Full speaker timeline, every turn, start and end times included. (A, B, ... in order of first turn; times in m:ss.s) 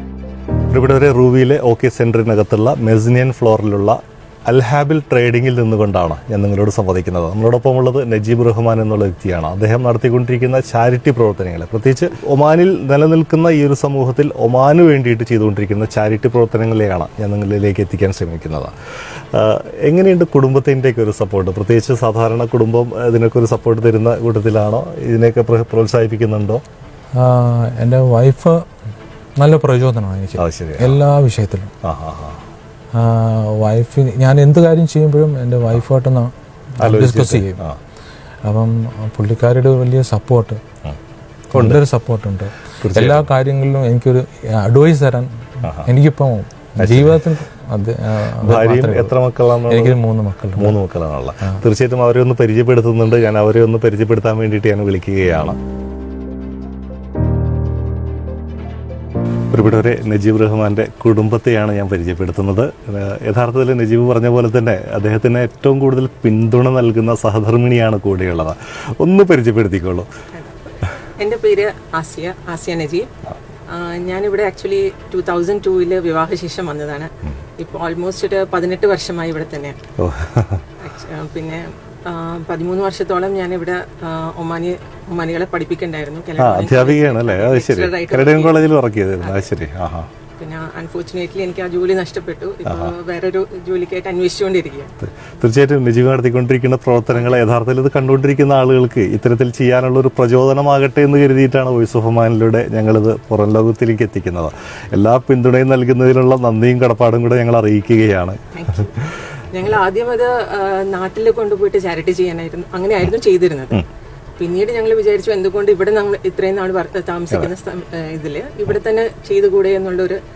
0:00.7-0:26.6 A
0:27.1-0:28.6 B
0:29.4-0:31.7 B
0:30.4-0:31.0 A
0:31.8-0:32.4 A
0:32.9-0:37.6 B
0:36.8-0:37.8 A
0:38.4-0:40.6 B
0:41.5-0:50.7 B
0:41.5-0:41.8 A
0:42.8-0:43.3 A
0:45.6-0:45.9 A
0:46.8-0:47.2 A
0:48.4-0:50.0 A
0:50.6-0:55.6 A
0:59.5-1:10.1 A
1:11.2-1:13.1 C
1:13.7-1:19.8 C
1:20.0-1:20.6 A
1:20.8-1:28.7 C
1:26.4-1:30.1 A
1:29.2-1:29.4 C
1:30.4-1:34.9 C
1:32.6-1:32.9 A
1:35.0-1:49.2 A
1:48.5-1:48.9 C
1:49.5-1:53.8 C
1:54.4-2:00.2 C